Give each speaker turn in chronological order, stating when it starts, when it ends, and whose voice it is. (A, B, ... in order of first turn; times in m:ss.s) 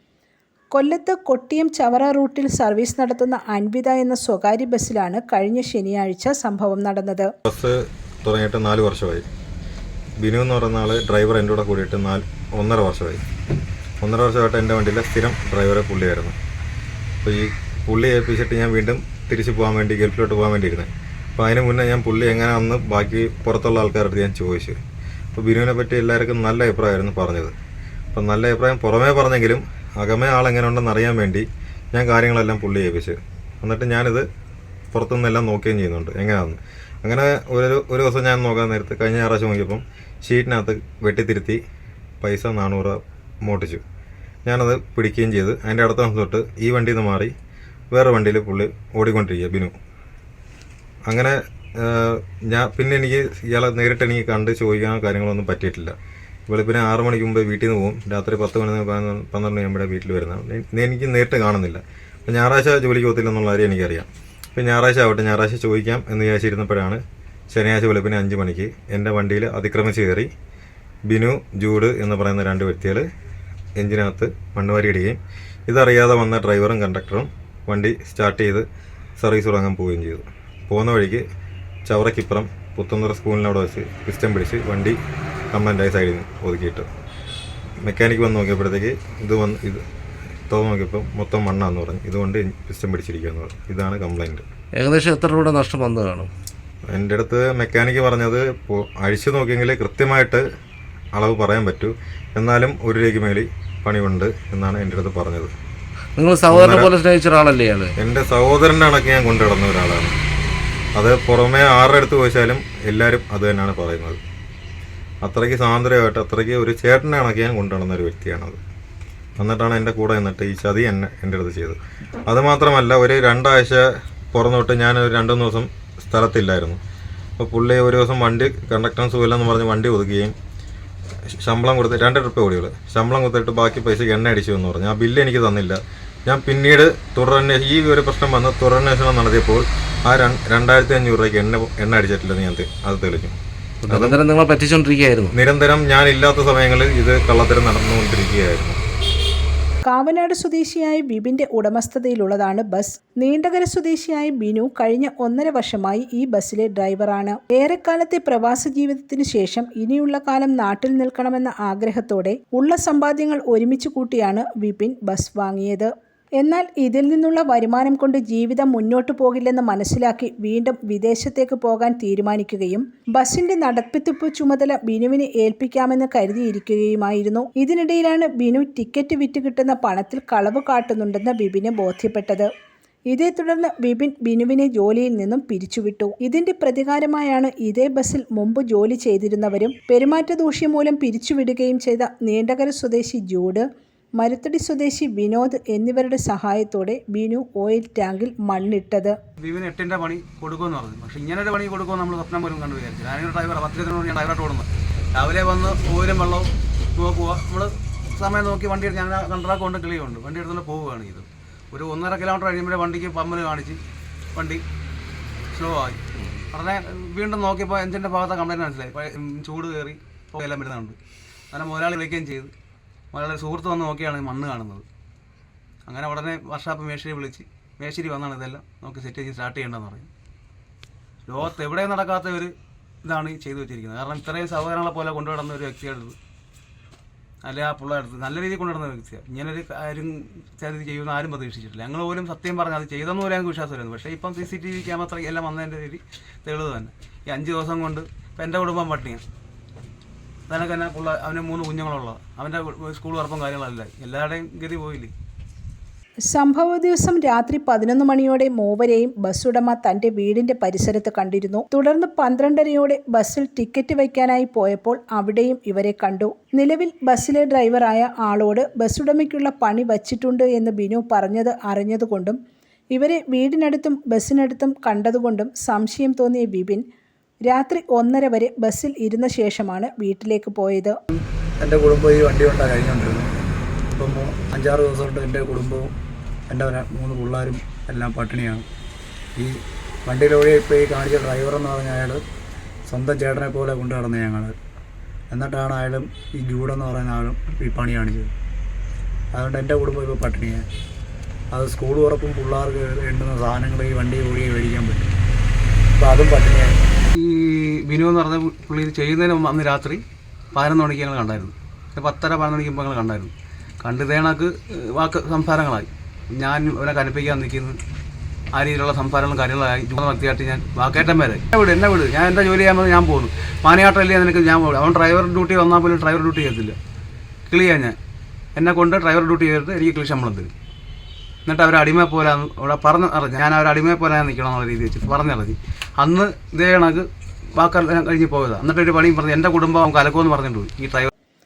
0:00.7-0:07.3 A
0:07.5-0:09.2 B
0:10.2-0:13.2 B
0:14.0-0:16.4 B
0:17.2-0:24.8 B
0:25.3-0:27.5 B
0:28.1-0:34.2 B
0:34.9-0:41.6 B
0:42.2-0:43.8 B
0:44.4-0:47.3 B
0:47.9-0:49.7 B
0:51.1-0:55.9 B
0:56.5-1:07.0 B
1:07.5-1:10.3 B
1:11.1-1:13.0 B
1:13.8-1:18.6 B
1:19.2-1:21.2 B
1:21.9-1:25.0 B
1:25.5-1:26.9 B
1:27.8-1:29.8 B
1:30.5-1:34.4 B
1:34.8-1:36.3 C
1:36.9-1:40.4 B
1:41.2-1:45.5 B
1:46.2-1:47.9 C
1:46.5-1:46.9 B
1:48.0-1:50.1 B
1:51.0-1:54.2 B
1:55.2-1:58.6 B
1:59.4-2:06.8 B
2:07.4-2:10.3 B
2:11.3-2:23.4 B
2:23.8-2:25.3 C
2:23.9-2:24.2 B
2:25.4-2:28.8 B
2:29.9-3:02.5 A
3:03.1-3:13.6 A
3:14.2-3:19.2 A
3:19.4-3:33.8 D
3:34.3-3:34.6 D
3:35.5-3:41.0 D
3:41.5-3:42.5 D
3:43.1-3:44.8 D
3:45.9-3:50.1 D
3:51.3-3:52.5 D
3:53.0-3:56.2 D
3:57.4-4:09.2 D
4:10.5-4:15.1 D
4:16.3-4:32.4 A
4:32.9-4:36.8 A
4:37.5-4:41.0 A
4:41.1-4:43.3 E
4:44.0-4:45.9 E
4:46.5-4:48.6 E
4:50.1-4:52.2 E
4:52.9-4:54.5 E
4:55.3-4:58.3 E
4:59.4-5:00.6 E
5:01.6-5:05.0 E
5:06.0-5:06.6 E
5:07.2-5:10.0 D
5:10.5-5:13.3 D
5:13.8-5:17.8 D
5:18.6-5:26.8 D
5:27.5-5:28.0 D
5:28.6-5:30.5 D
5:31.5-5:37.0 D
5:37.6-5:41.1 D